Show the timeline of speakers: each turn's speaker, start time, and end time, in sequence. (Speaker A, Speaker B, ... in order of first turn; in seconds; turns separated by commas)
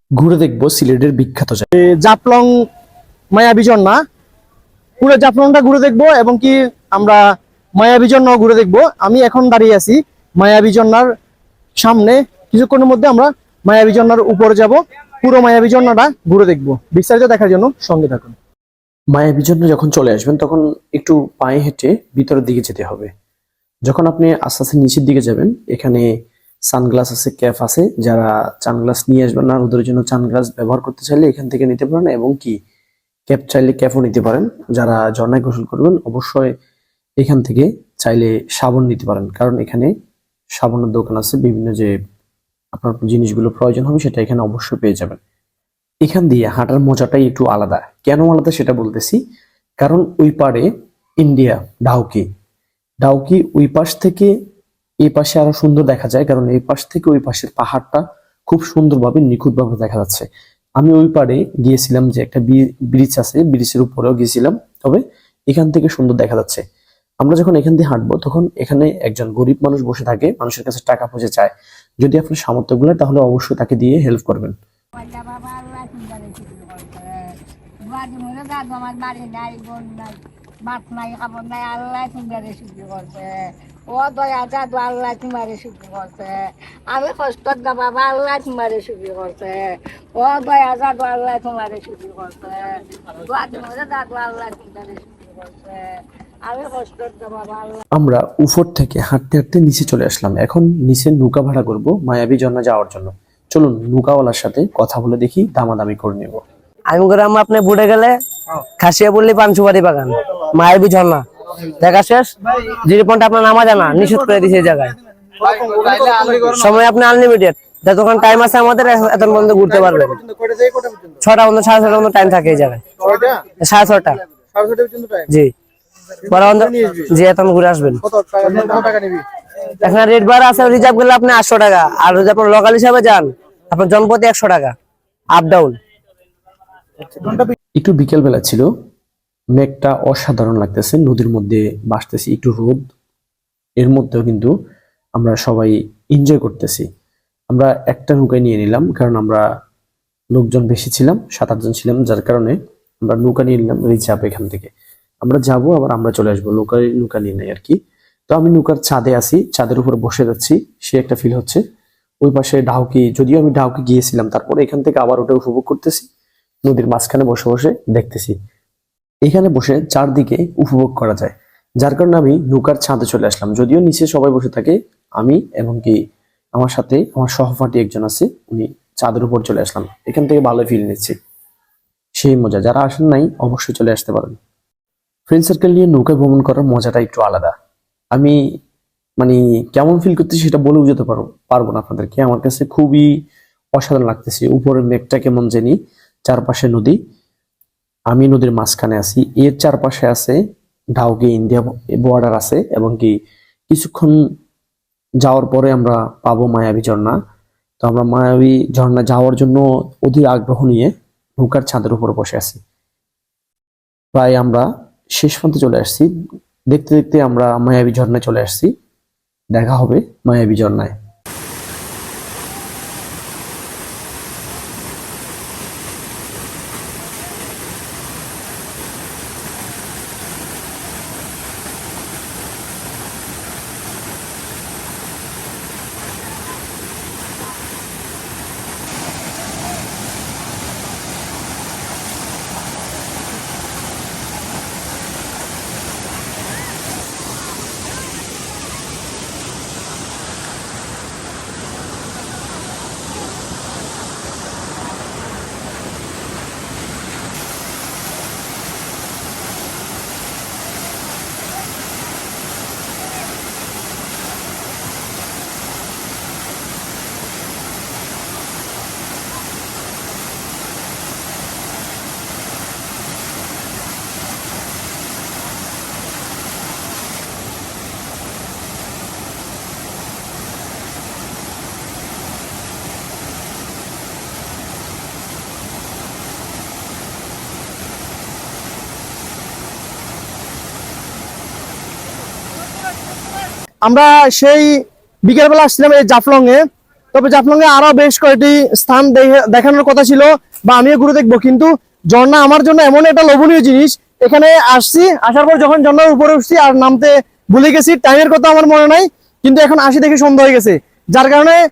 Speaker A: 0.2-1.7, Speaker B: 2.0-2.5, Speaker B: 3.3-4.0, Speaker B: 5.0-7.2, Speaker B: 7.8-11.1, Speaker B: 11.8-18.4, Speaker A: 19.1-23.1, Speaker A: 23.9-26.1, Speaker A: 26.7-32.5, Speaker A: 33.3-36.5, Speaker A: 37.2-39.9, Speaker A: 40.6-42.0, Speaker A: 42.7-45.2, Speaker A: 46.0-49.2, Speaker A: 49.8-50.7, Speaker A: 51.2-52.3, Speaker A: 53.0-54.3, Speaker A: 55.0-60.3, Speaker A: 60.8-66.6, Speaker A: 67.2-74.5, Speaker C: 75.0-77.2, Speaker C: 77.9-95.8, Speaker C: 96.5-97.8, Speaker A: 98.0-106.4, Speaker D: 106.9-108.2, Speaker D: 108.8-111.2, Speaker D: 111.8-115.0, Speaker B: 115.4-116.5, Speaker D: 115.8-120.2, Speaker B: 120.4-120.9, Speaker D: 121.2-122.8, Speaker B: 123.0-123.4, Speaker D: 123.6-124.2, Speaker B: 124.5-125.3, Speaker D: 126.3-128.0, Speaker B: 126.6-127.1, Speaker B: 128.1-129.2, Speaker D: 129.8-134.8, Speaker D: 135.3-135.8, Speaker A: 137.8-138.7, Speaker A: 139.6-142.8, Speaker A: 143.8-144.5, Speaker A: 145.2-146.8, Speaker A: 147.5-149.4, Speaker A: 150.3-154.7, Speaker A: 155.2-157.8, Speaker A: 158.3-161.6, Speaker A: 162.2-166.1, Speaker A: 166.7-168.3, Speaker A: 169.3-176.0, Speaker A: 176.6-181.2, Speaker A: 182.2-184.4, Speaker A: 185.3-187.5, Speaker A: 189.2-193.1, Speaker A: 193.8-197.0, Speaker A: 198.1-200.4, Speaker A: 201.0-203.1, Speaker A: 203.7-204.2, Speaker A: 205.2-207.2, Speaker A: 207.8-212.6, Speaker A: 214.1-216.1, Speaker A: 216.7-218.7, Speaker A: 219.5-220.9, Speaker B: 293.8-294.7, Speaker B: 295.2-296.6, Speaker B: 297.1-311.6